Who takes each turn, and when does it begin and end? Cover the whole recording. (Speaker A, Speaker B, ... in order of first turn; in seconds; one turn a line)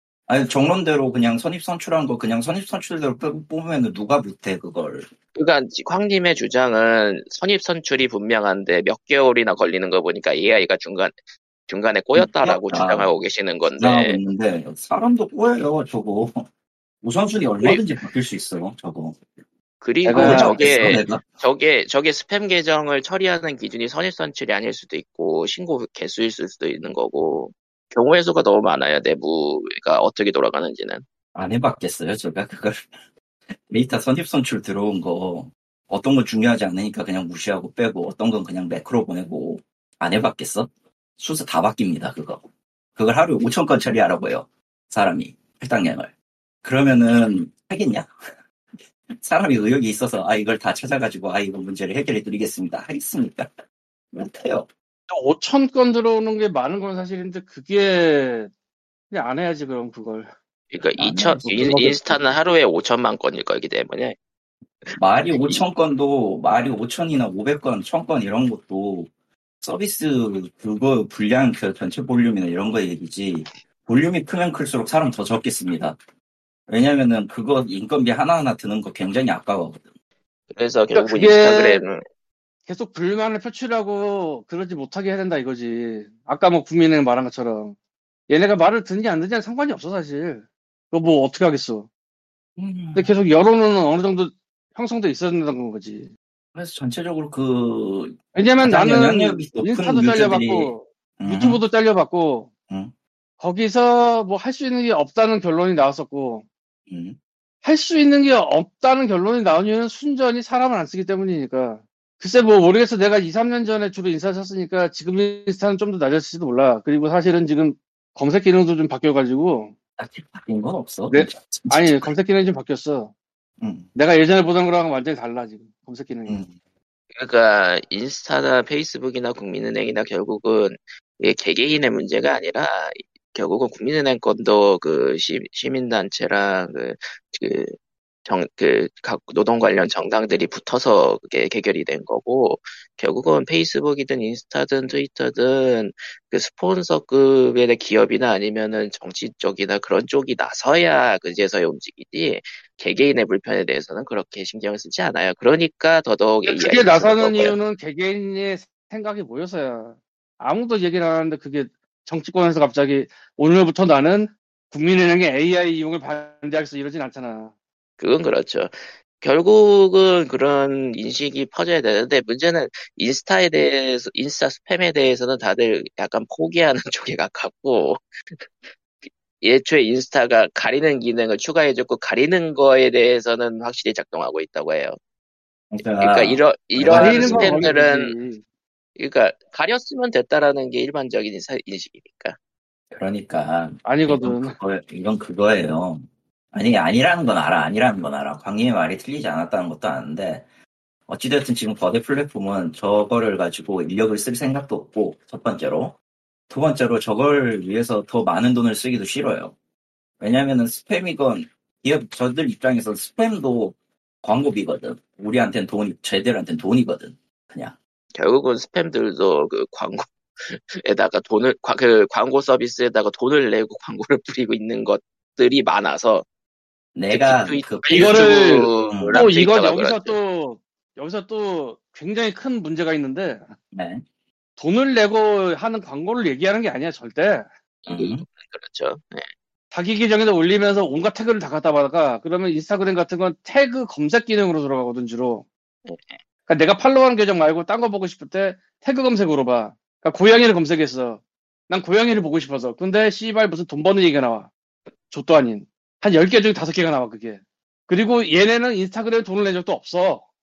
Speaker A: 0.3-5.1
Speaker B: 5.3-11.1
Speaker B: 11.7-14.2
Speaker A: 12.1-13.1
Speaker A: 13.8-16.4
Speaker A: 17.0-19.2
Speaker B: 19.8-31.0
Speaker C: 20.0-20.6
Speaker A: 20.1-21.2
Speaker A: 31.3-32.8
Speaker A: 33.7-42.4
Speaker A: 43.0-46.1
Speaker A: 46.6-48.1
Speaker A: 49.1-53.5
Speaker A: 54.1-54.7
Speaker C: 55.1-58.5
Speaker C: 59.1-60.3
Speaker B: 60.7-64.2
Speaker A: 61.0-62.3
Speaker B: 64.8-65.6
Speaker A: 65.0-76.0
Speaker A: 76.7-79.8
Speaker B: 80.5-82.0
Speaker C: 80.9-81.8
Speaker C: 82.7-87.8
Speaker C: 88.3-91.9
Speaker A: 92.6-93.1
Speaker C: 92.9-96.1
Speaker A: 96.5-101.6
Speaker C: 98.3-102.5
Speaker A: 102.7-102.9
Speaker C: 103.4-106.5
Speaker A: 106.9-107.2
Speaker C: 107.6-119.7
Speaker A: 120.0-122.1
Speaker C: 121.1-123.1
Speaker A: 123.6-123.9
Speaker C: 123.9-126.4
Speaker A: 126.2-126.5
Speaker B: 127.1-157.6
Speaker C: 156.4-167.5
Speaker B: 168.0-178.7
Speaker B: 179.4-184.9
Speaker A: 185.7-187.7
Speaker B: 186.0-188.1
Speaker C: 186.9-188.4
Speaker B: 189.0-192.3
Speaker A: 192.9-200.5
Speaker C: 193.8-194.6
Speaker A: 201.1-205.9
Speaker A: 206.5-209.5
Speaker A: 210.2-217.8
Speaker B: 218.2-226.2
Speaker A: 226.9-229.3
Speaker B: 227.1-230.2
Speaker C: 227.9-233.5
Speaker A: 233.7-234.0
Speaker C: 234.6-237.4
Speaker B: 237.8-239.3
Speaker A: 237.9-238.2
Speaker C: 239.7-245.4
Speaker B: 245.8-246.2
Speaker C: 246.5-254.5
Speaker C: 255.1-260.2